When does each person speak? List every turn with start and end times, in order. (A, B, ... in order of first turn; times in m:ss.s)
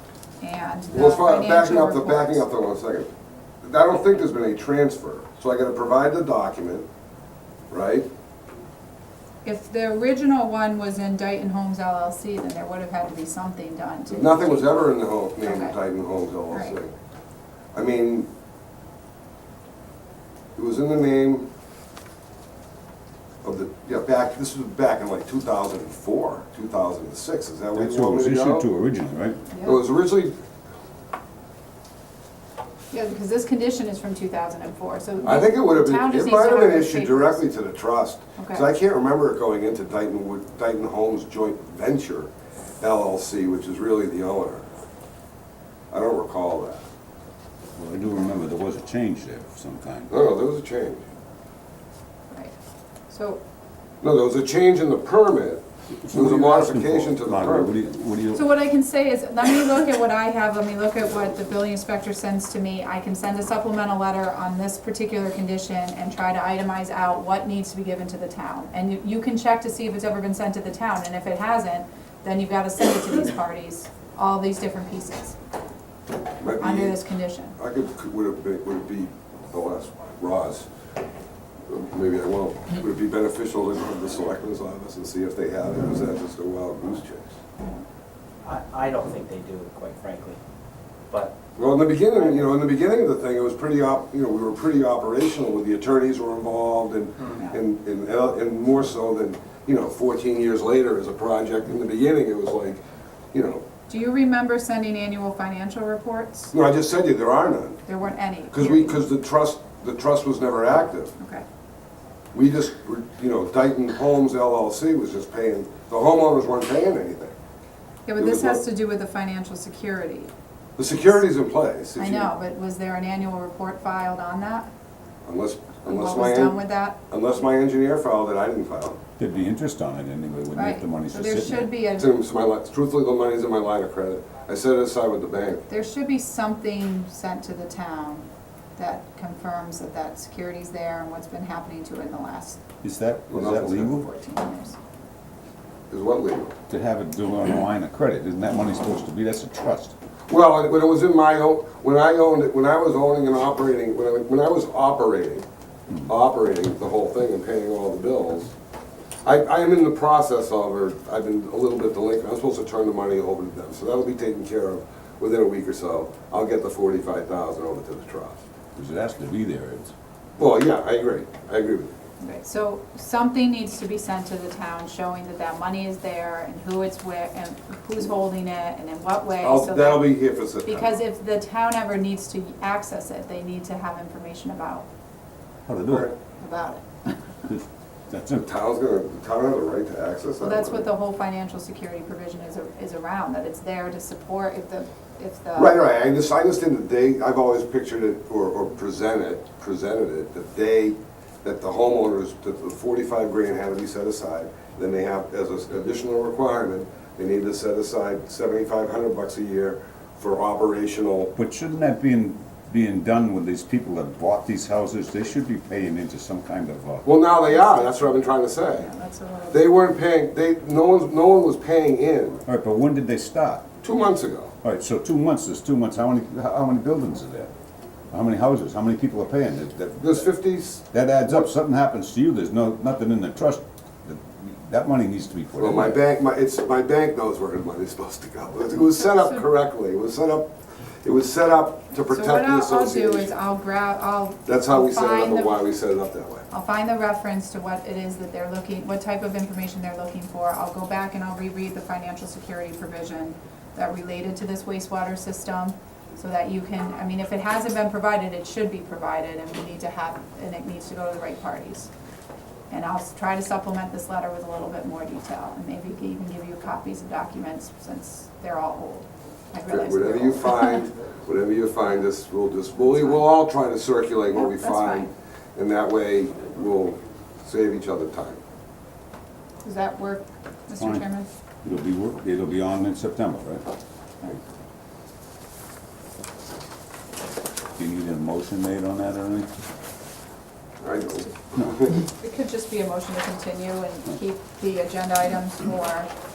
0:00.4-0:02.4 A
0:00.9-0:03.1 B
0:03.6-0:06.9 B
0:07.7-0:08.1 B
0:09.4-0:15.8 A
0:14.1-0:16.9 B
0:16.5-0:16.8 A
0:17.7-0:18.3 B
0:20.6-0:21.5 B
0:23.4-0:28.7 B
0:27.8-0:29.4 C
0:29.5-0:29.8 A
0:29.6-0:30.4 B
0:32.9-0:37.4 A
0:35.2-0:44.7 B
0:38.4-0:38.7 A
0:45.9-0:46.8 B
0:47.8-0:50.1 C
0:50.1-0:51.0 B
0:53.1-0:53.4 A
0:54.0-0:57.8 B
0:56.0-0:58.5 C
0:58.3-1:15.4 A
1:16.4-1:17.0 B
1:16.6-1:17.6 A
1:17.6-1:20.7 B
1:21.7-1:27.3 B
1:28.4-1:30.4 D
1:31.1-1:31.4 D
1:31.6-1:42.8 B
1:32.0-1:32.5 D
1:43.3-1:43.7 B
1:43.9-1:46.5 A
1:46.5-1:47.8 B
1:47.9-1:49.0 A
1:48.5-1:51.1 B
1:51.2-1:51.4 A
1:52.3-1:57.4 B
1:58.1-2:00.3 A
1:58.2-1:58.6 B
2:00.8-2:02.3 B
2:02.0-2:04.7 A
2:05.2-2:09.0 B
2:05.8-2:07.0 A
2:09.2-2:11.7 C
2:10.5-2:12.1 A
2:11.9-2:15.6 B
2:15.7-2:18.3 A
2:18.8-2:22.6 A
2:22.8-2:24.1 C
2:23.3-2:24.0 B
2:23.7-2:24.8 A
2:25.9-2:26.6 B
2:26.7-2:30.0 C
2:30.3-2:35.4 B
2:36.1-2:38.5 B
2:39.2-2:48.4 B
2:48.8-2:49.9 C
2:50.4-2:51.9 B
2:52.2-3:04.9 A
2:59.4-3:00.9 B
3:05.7-3:06.1 C
3:05.9-3:06.1 B
3:06.4-3:07.1 A
3:07.5-3:08.5 C
3:08.4-3:10.9 B
3:10.4-3:15.8 A
3:15.6-3:31.3 B
3:31.4-3:37.1 C
3:37.0-3:38.9 B
3:37.4-3:39.8 A
3:39.5-3:42.4 B
3:42.5-3:43.7 C
3:43.8-3:44.5 B
3:44.6-3:47.5 C
3:48.1-3:50.3 C
3:50.0-3:50.8 B
3:50.9-3:56.0 C
3:55.6-4:00.5 B
3:59.0-3:59.4 A
4:01.0-4:03.3 B
4:02.0-4:05.6 A
4:04.5-4:06.4 B
4:06.5-4:21.9 A
4:22.7-4:30.8 A
4:29.7-4:38.4 B
4:32.9-4:33.3 A
4:34.3-4:35.1 A
4:39.6-4:41.3 A
4:40.8-4:41.0 C
4:41.6-4:43.6 C
4:47.8-4:49.5 C
4:50.8-4:52.0 B
4:52.0-4:56.1 A